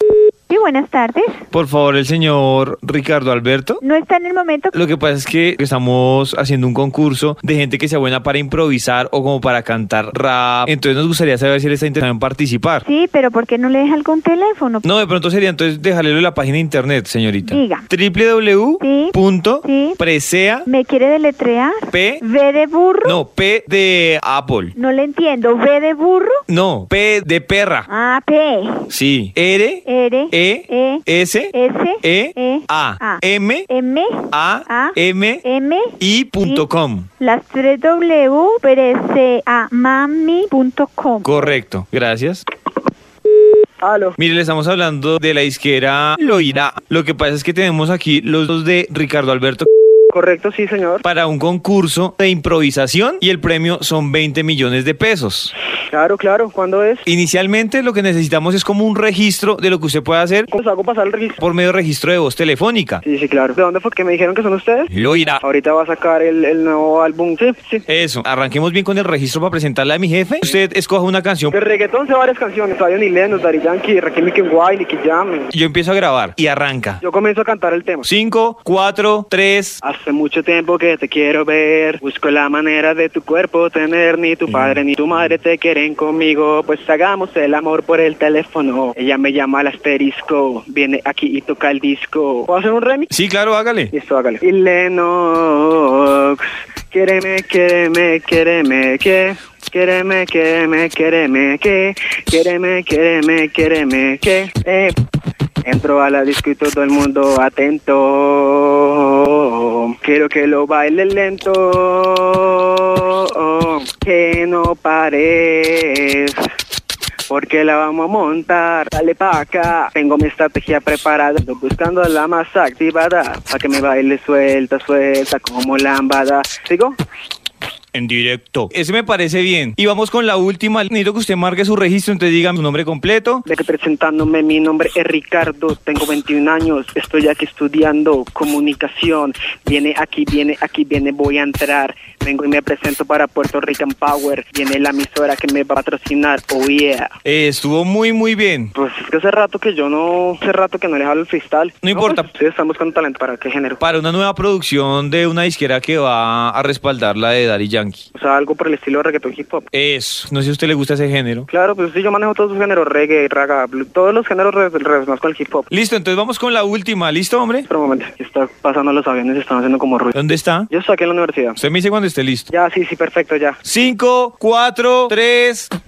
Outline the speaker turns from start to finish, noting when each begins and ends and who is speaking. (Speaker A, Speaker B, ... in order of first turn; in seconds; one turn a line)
Speaker A: 0.5-1.4
Speaker B: 1.5-3.8
Speaker A: 3.8-4.8
Speaker B: 4.7-12.8
Speaker A: 12.8-14.9
Speaker B: 14.8-20.7
Speaker A: 17.4-17.9
Speaker A: 18.8-20.0
Speaker A: 20.7-23.1
Speaker B: 21.9-22.2
Speaker B: 23.1-24.7
Speaker A: 24.8-26.4
Speaker B: 26.5-27.9
Speaker A: 27.9-28.9
Speaker B: 28.9-33.7
Speaker A: 29.9-36.7
Speaker B: 34.3-35.4
Speaker B: 36.0-37.1
Speaker A: 37.2-41.5
Speaker B: 41.2-42.4
Speaker C: 43.8-44.2
Speaker B: 44.2-49.7
Speaker C: 50.1-51.0
Speaker B: 51.0-55.5
Speaker C: 55.9-57.0
Speaker B: 57.1-60.5
Speaker C: 60.5-61.4
Speaker B: 61.4-63.0
Speaker C: 63.0-67.8
Speaker B: 64.9-65.4
Speaker B: 67.9-71.5
Speaker C: 71.5-75.5
Speaker B: 75.5-77.0
Speaker C: 77.0-78.1
Speaker B: 78.0-79.8
Speaker C: 79.8-93.1
Speaker B: 93.1-93.9
Speaker C: 93.9-105.0
Speaker C: 105.6-116.4
Speaker C: 117.3-127.0
Speaker B: 127.9-133.4
Speaker C: 133.5-147.1
Speaker B: 147.2-148.7
Speaker C: 148.8-153.8
Speaker B: 151.8-152.3
Speaker B: 153.8-158.1
Speaker C: 158.1-159.7
Speaker B: 159.7-161.5
Speaker C: 161.5-165.7
Speaker B: 165.7-167.7
Speaker C: 167.7-170.2
Speaker B: 170.1-170.7
Speaker C: 170.7-171.6
Speaker B: 171.6-172.5
Speaker C: 172.5-173.6
Speaker B: 173.6-175.7